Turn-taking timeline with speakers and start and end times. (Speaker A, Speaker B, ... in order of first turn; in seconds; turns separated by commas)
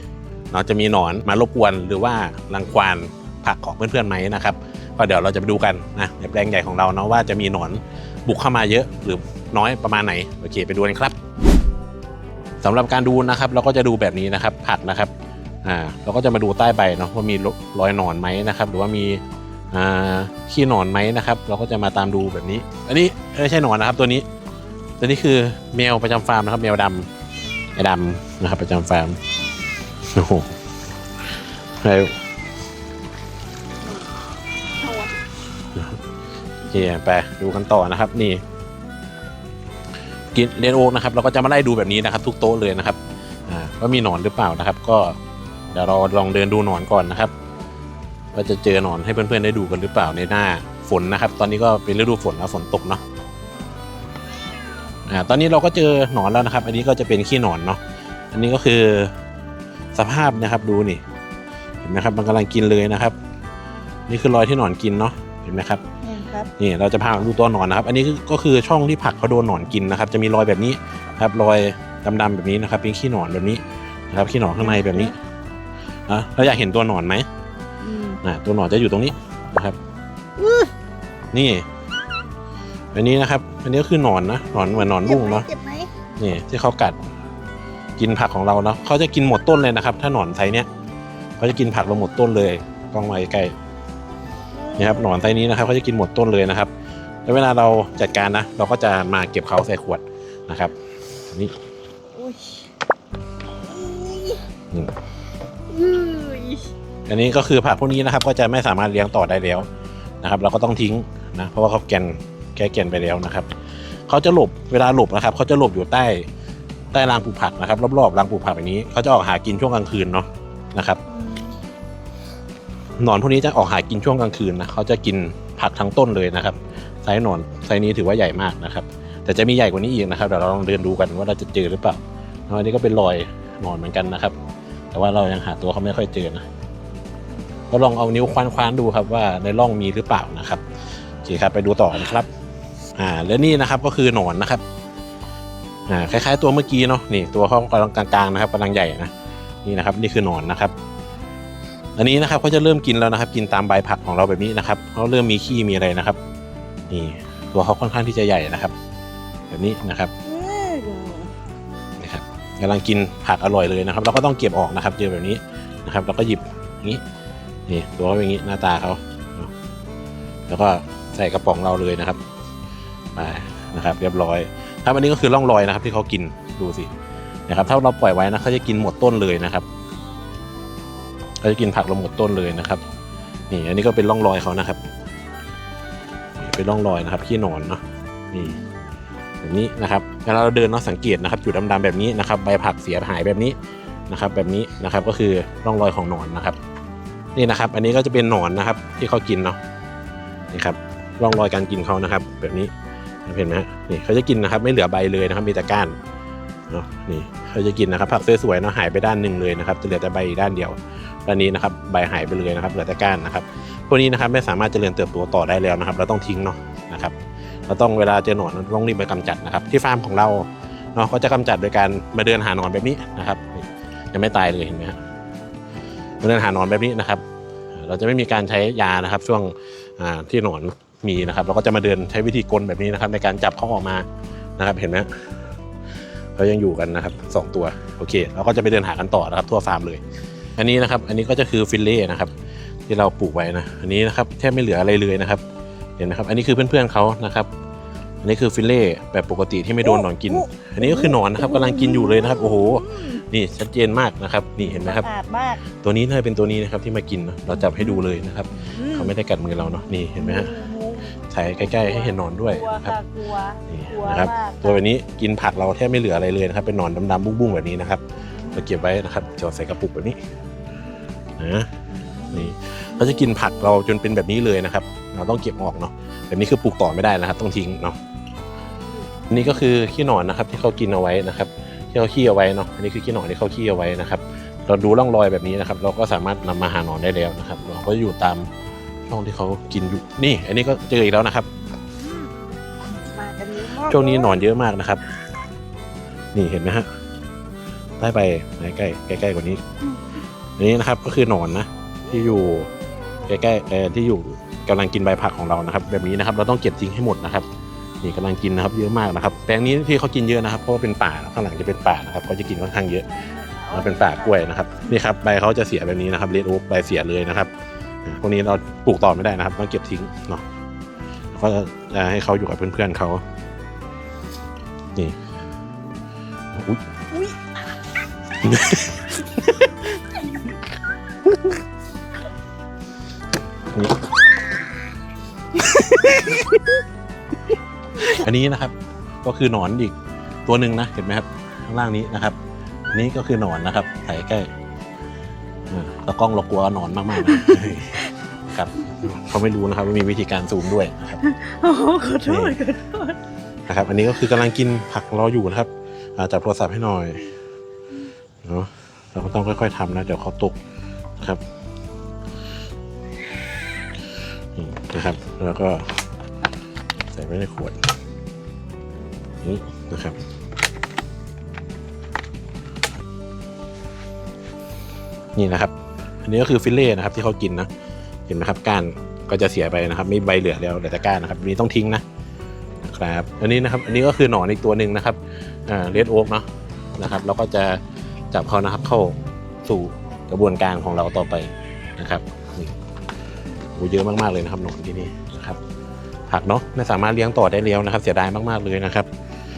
Speaker A: 0.5-11.2, Speaker A: 12.6-15.1, Speaker A: 15.6-19.2, Speaker A: 19.7-24.2, Speaker A: 25.0-27.1, Speaker A: 27.8-29.2, Speaker A: 30.1-30.6, Speaker A: 31.8-32.2, Speaker B: 34.8-35.1, Speaker A: 36.7-38.4, Speaker A: 40.3-45.2, Speaker A: 45.7-47.3, Speaker A: 48.3-53.0, Speaker A: 55.1-57.8, Speaker A: 58.3-59.1, Speaker A: 59.9-61.0, Speaker A: 61.8-63.1, Speaker A: 64.1-65.8, Speaker B: 66.0-66.5, Speaker A: 66.6-75.2, Speaker B: 74.6-75.1, Speaker A: 76.1-77.3, Speaker B: 77.8-78.2, Speaker A: 78.2-79.8, Speaker B: 80.4-80.7, Speaker A: 81.3-81.7, Speaker A: 82.9-85.5, Speaker B: 84.8-85.9, Speaker A: 86.2-87.0, Speaker A: 88.0-90.7, Speaker A: 91.4-93.5, Speaker B: 94.5-95.2, Speaker A: 94.8-96.7, Speaker A: 97.2-100.7, Speaker B: 102.1-102.6, Speaker B: 103.6-104.4, Speaker B: 105.7-106.7, Speaker A: 107.1-109.7, Speaker A: 110.2-113.5, Speaker A: 114.1-116.3, Speaker A: 116.9-121.0, Speaker B: 121.1-121.6, Speaker A: 123.0-134.3, Speaker A: 134.9-136.4, Speaker A: 137.7-140.6, Speaker A: 141.2-142.3, Speaker A: 143.0-144.6, Speaker A: 145.9-149.1, Speaker A: 149.6-150.7, Speaker A: 152.0-156.2, Speaker A: 156.9-158.7, Speaker A: 159.5-160.1, Speaker B: 160.2-161.3, Speaker A: 162.0-167.0, Speaker A: 167.7-169.5, Speaker A: 170.5-172.2, Speaker A: 173.1-176.9, Speaker A: 177.5-179.7, Speaker A: 181.4-182.8, Speaker A: 183.5-184.8, Speaker A: 186.4-187.8, Speaker A: 188.3-188.6, Speaker A: 189.4-193.6, Speaker A: 194.1-196.6, Speaker A: 197.3-199.6, Speaker A: 200.5-202.7, Speaker A: 203.2-205.9, Speaker A: 206.7-217.2, Speaker A: 217.7-224.9, Speaker A: 226.2-227.2, Speaker A: 227.7-234.1, Speaker A: 234.6-235.3, Speaker A: 236.4-240.0, Speaker A: 240.6-242.3, Speaker A: 242.9-245.4, Speaker A: 246.0-247.5, Speaker A: 248.2-255.1, Speaker B: 249.8-253.2, Speaker B: 254.6-255.6, Speaker A: 255.8-260.5, Speaker B: 257.7-258.0, Speaker B: 258.5-259.1, Speaker B: 260.2-264.8, Speaker A: 261.3-262.9, Speaker A: 263.7-270.2, Speaker A: 271.4-271.7, Speaker B: 271.9-273.5, Speaker A: 272.3-278.0, Speaker B: 279.0-279.4, Speaker A: 279.3-288.5, Speaker A: 289.1-291.5, Speaker B: 292.0-292.3, Speaker B: 292.8-294.4, Speaker A: 293.7-295.0, Speaker A: 296.3-296.9, Speaker A: 298.0-299.6, Speaker A: 300.6-302.7, Speaker A: 303.3-307.4, Speaker A: 308.0-313.1, Speaker B: 313.0-314.8, Speaker A: 313.7-317.5, Speaker A: 318.1-320.4, Speaker A: 321.3-323.2, Speaker A: 326.5-326.8, Speaker B: 327.1-327.4, Speaker A: 328.4-329.7, Speaker A: 333.7-334.1, Speaker A: 338.0-339.9, Speaker A: 340.4-342.4, Speaker A: 342.9-344.5, Speaker A: 345.7-351.2, Speaker B: 351.2-353.2, Speaker A: 352.2-352.6, Speaker A: 353.7-357.3, Speaker A: 358.4-360.6, Speaker A: 364.6-366.0, Speaker A: 367.1-367.8, Speaker A: 369.4-370.2, Speaker A: 375.4-377.7, Speaker A: 378.3-382.0, Speaker A: 382.8-387.8, Speaker A: 388.3-392.7, Speaker A: 393.7-395.6, Speaker A: 396.3-399.1